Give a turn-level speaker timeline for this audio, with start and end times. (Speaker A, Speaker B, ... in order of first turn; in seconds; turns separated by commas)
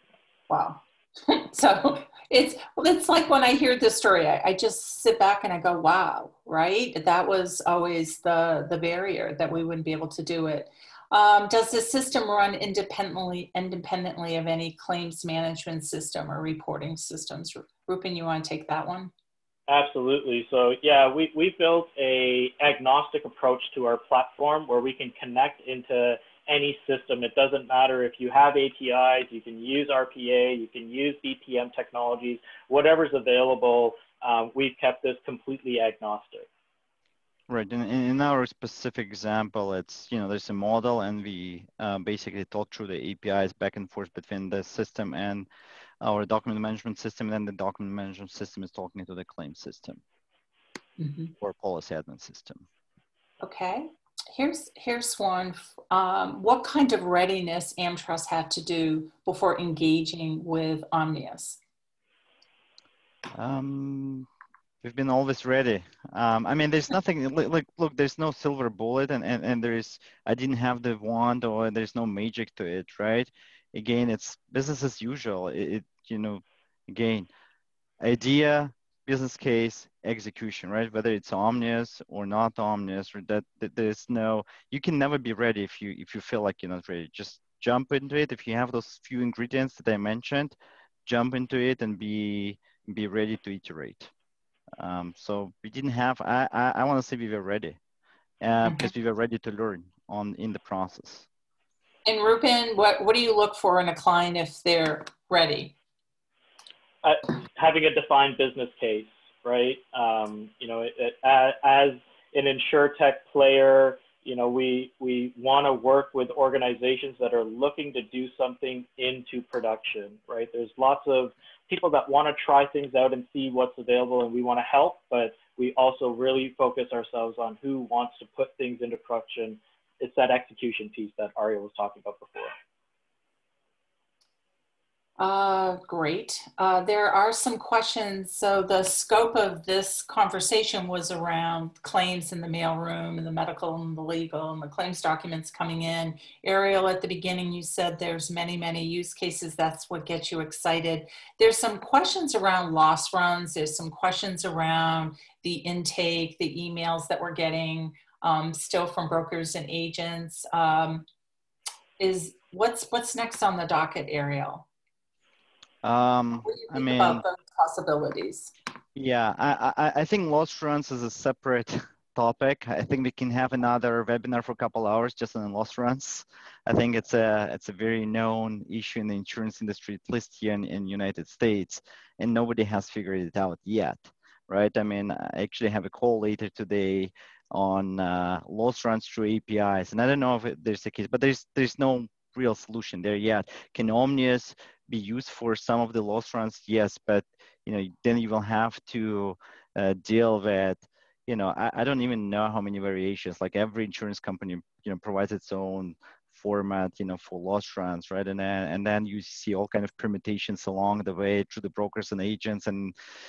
Speaker A: 0.5-19.1, Speaker B: 19.7-36.5, Speaker C: 37.5-45.5, Speaker C: 46.0-50.0, Speaker A: 51.0-51.3, Speaker C: 51.4-52.6, Speaker A: 53.4-61.6, Speaker C: 63.3-64.3, Speaker C: 64.8-77.3, Speaker C: 78.0-94.1, Speaker C: 94.8-97.8, Speaker C: 98.4-101.2, Speaker A: 98.6-98.9, Speaker A: 102.0-105.7, Speaker B: 107.0-132.5, Speaker A: 135.2-161.1, Speaker A: 162.0-164.7, Speaker C: 165.8-167.2, Speaker A: 166.4-168.5, Speaker C: 168.9-212.9